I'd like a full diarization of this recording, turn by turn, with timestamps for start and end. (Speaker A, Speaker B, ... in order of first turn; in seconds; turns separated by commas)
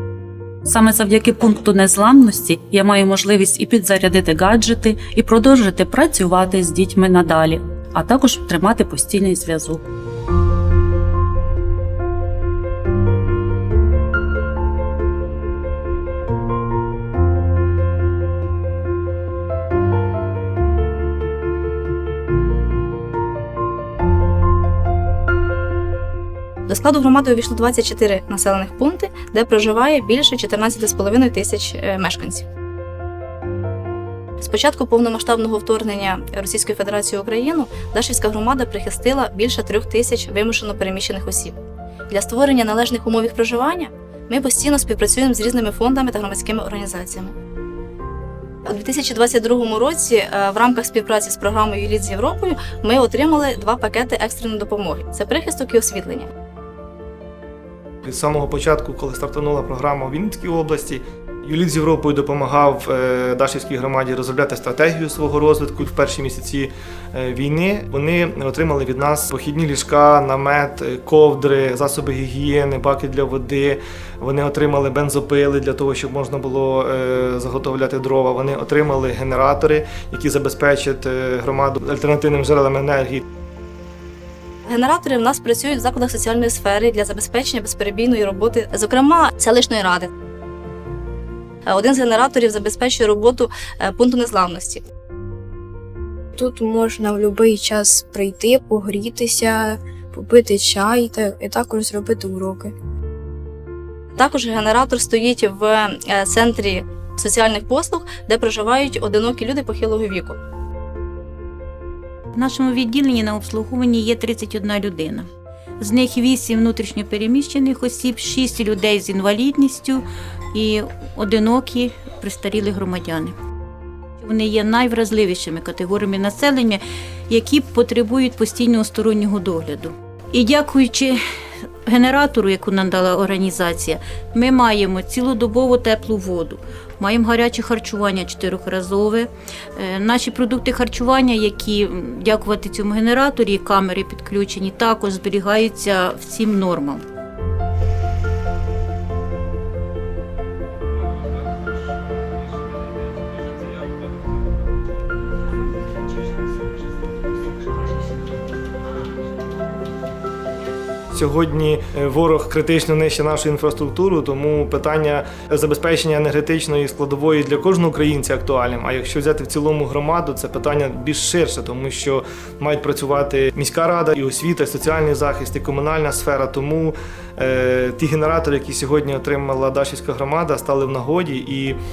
Speaker A: 0.6-9.9, Speaker B: 26.7-32.5, Speaker B: 34.4-41.5, Speaker B: 42.1-47.4, Speaker B: 48.7-56.3, Speaker C: 58.0-83.2, Speaker B: 84.7-90.1, Speaker B: 91.7-94.8, Speaker D: 96.3-102.7, Speaker B: 104.2-110.4, Speaker E: 112.3-115.3, Speaker E: 115.8-123.3, Speaker E: 124.2-131.2, Speaker E: 131.9-147.1, Speaker C: 161.1-181.8